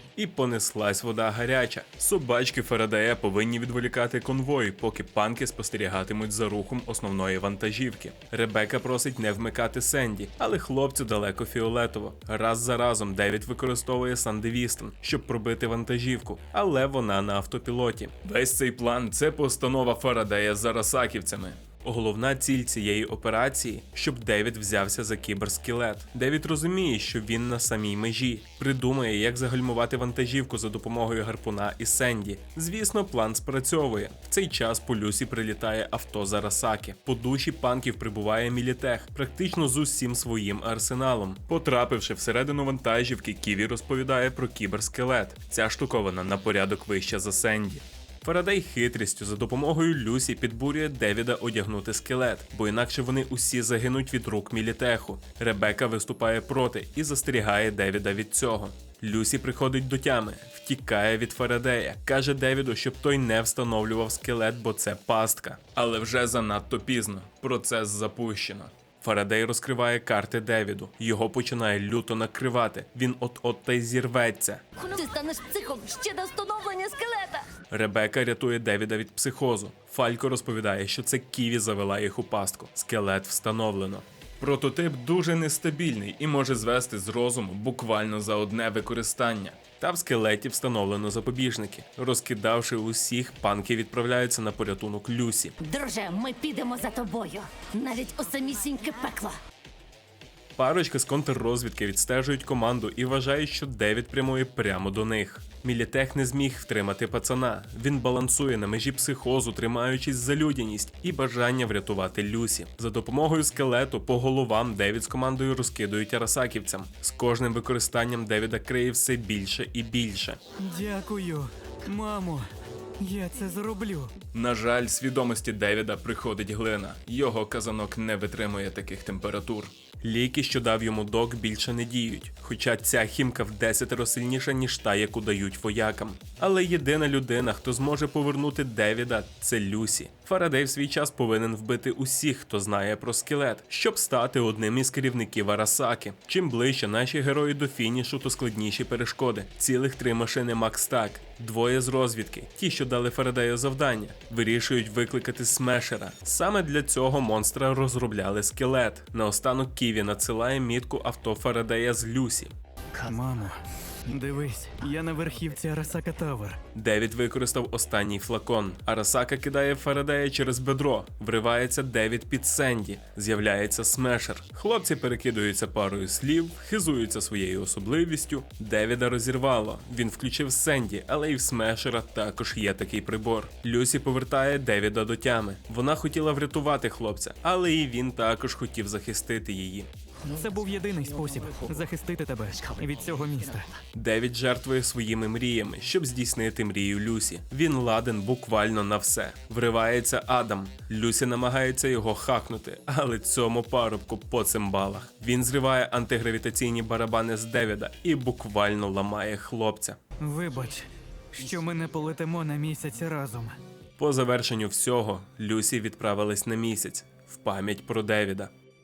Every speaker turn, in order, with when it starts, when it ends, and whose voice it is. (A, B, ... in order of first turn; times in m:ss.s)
0:00.2-1:14.6 A
1:14.8-1:17.5 B
1:17.7-1:35.6 A
1:35.6-1:39.4 B
1:40.6-2:00.4 A
2:00.7-2:02.5 C
2:03.0-2:04.1 C
2:04.3-2:42.5 A
2:43.0-2:43.6 C
2:44.1-2:46.6 C
2:46.8-3:09.9 A
3:10.3-3:13.7 C
3:13.9-3:30.0 A
3:30.2-3:33.6 C
3:34.0-3:38.5 A